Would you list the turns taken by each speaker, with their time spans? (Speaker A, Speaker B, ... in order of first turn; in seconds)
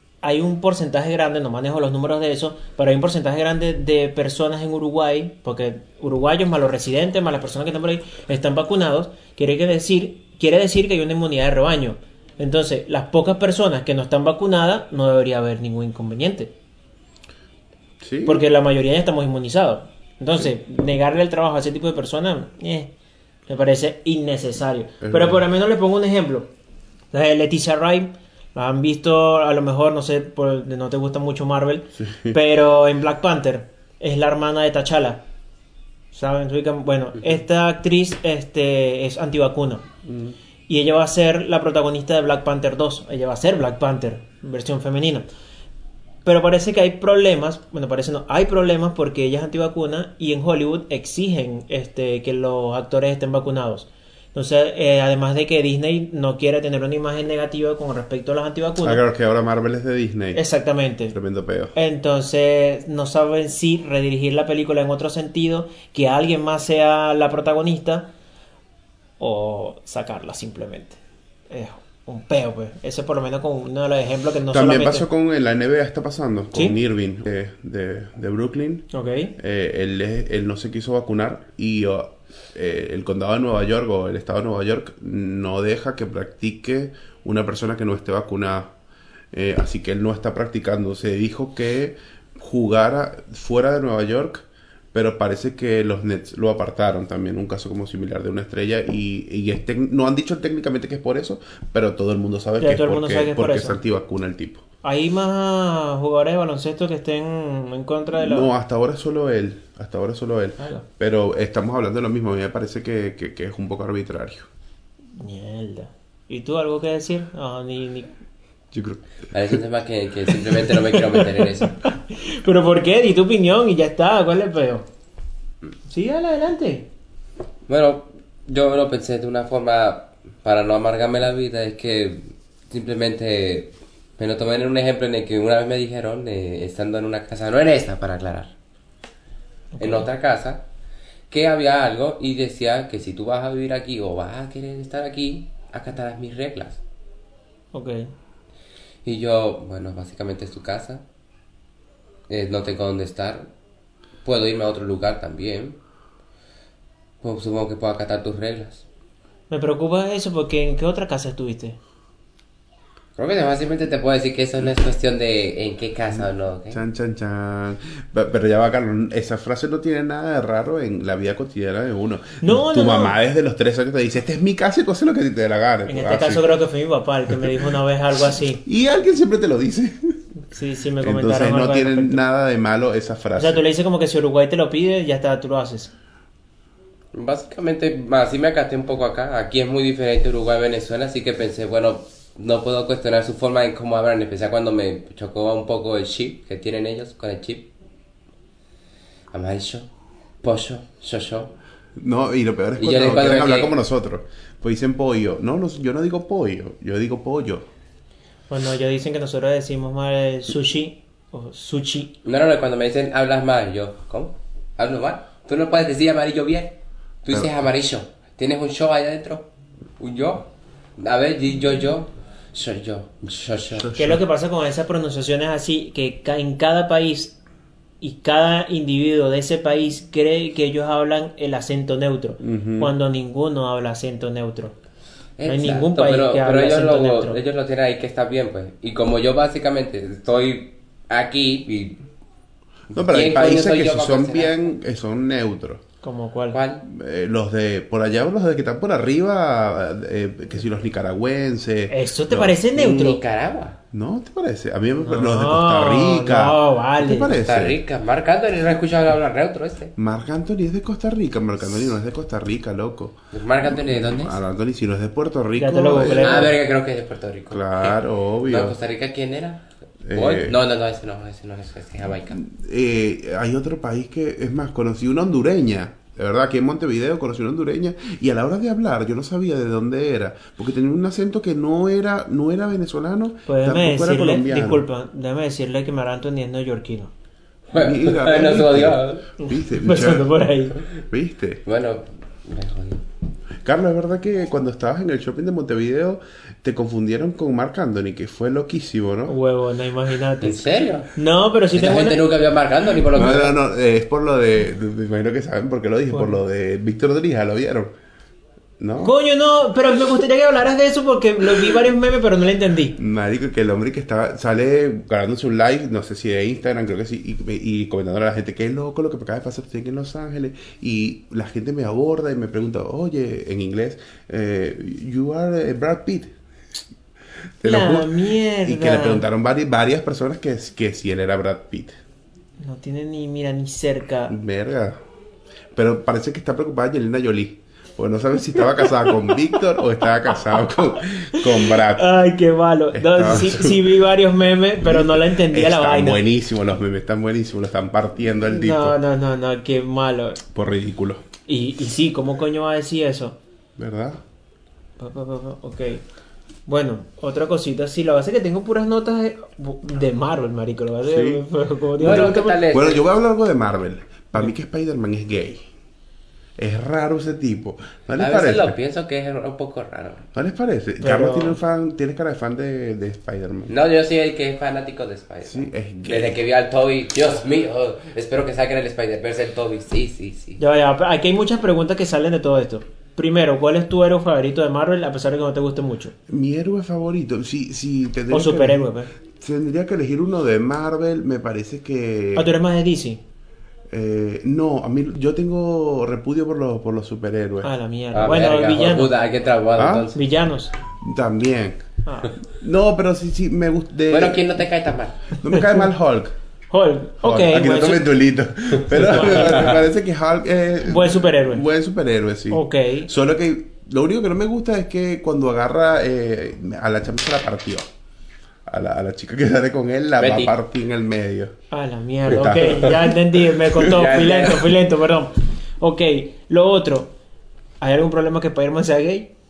Speaker A: 0.2-16.5, 18.2-22.9, 23.5-26.5, 27.1-35.2, 36.1-39.9, 40.7-45.3, 46.2-59.0, 60.3-61.1, 61.7-68.1, 69.2-71.0, 71.5-75.0, 78.9-79.3, 102.6-103.8, 104.8-108.5, 110.6-110.8, 115.2-118.1, 120.8-124.8, 125.9-126.9, 139.8-140.1, 147.7-148.1, 159.5-161.8, 172.4-173.1, 175.8-178.6, 180.5-182.2, 183.3-185.9, 208.5-212.1, 223.9-227.4, 228.0-234.7, 235.4-237.4, 246.0-246.6, 251.9-253.2, 255.0-257.4, 265.6-266.5, 283.5-287.1, 289.4-290.8, 299.3-300.6, 301.1-302.2, 306.1-306.4, 309.0-313.0, 327.6-329.2, 332.6-334.3, 338.8-339.3, 341.3-346.2, 348.5-350.4, 351.5-353.4, 355.0-356.0, 356.7-362.6, 371.0-371.6, 380.6-386.1, 388.3-389.1, 392.3-393.2, 397.6-399.1, 400.1-400.7, 402.1-402.4, 405.5-405.9, 406.7-408.1, 408.9-409.8, 410.8-411.6, 412.5-413.1, 421.7-427.1, 427.8-429.3
Speaker B: 18.0-18.4, 25.0-25.4, 31.9-32.4, 40.0-40.4, 58.8-60.4, 61.1-61.7, 74.5-78.8, 79.4-88.7, 89.3-104.6, 108.1-114.5, 118.7-119.6, 166.7-176.5, 178.6-180.2, 181.0-183.6, 202.0-207.7, 223.7-224.2, 232.4-232.9, 242.9-245.8, 246.8-252.5, 253.9-257.8, 260.0-263.2, 263.7-266.5, 267.5-268.8, 270.1-270.6, 272.3-284.8, 287.7-290.3, 291.1-291.6, 293.6-299.3, 303.1-307.9, 308.8-309.1, 313.0-326.3, 327.6-328.1, 328.6-332.0, 334.3-335.0, 335.7-342.0, 342.9-343.9, 344.8-349.0, 350.5-351.2, 353.8-354.2, 361.1-361.4, 362.0-365.6, 366.6-368.8, 370.3-373.7, 375.5-376.4, 386.3-392.5, 393.9-397.7, 399.8-400.1, 401.0-401.8, 402.4-404.5, 405.4-406.3, 407.2-417.9, 418.7-421.5, 422.2-424.2
Speaker C: 119.3-121.8, 127.7-138.5, 139.8-140.6, 141.3-146.8, 149.0-151.0, 152.3-153.5, 154.2-155.8, 157.2-158.8, 163.2-166.8, 187.1-197.7, 199.3-199.9, 200.4-201.5, 202.8-203.7, 212.2-223.9, 235.4-242.0, 243.0-244.6, 246.5-246.8, 252.7-253.8, 257.3-259.9, 263.3-264.4, 266.1-272.4, 287.7-289.3, 291.6-293.0, 300.4-301.1, 301.7-303.5, 362.0-363.1, 368.2-370.2, 373.7-380.6, 398.1-400.2, 404.1-405.3, 409.3-409.8, 420.2-420.5, 423.9-424.7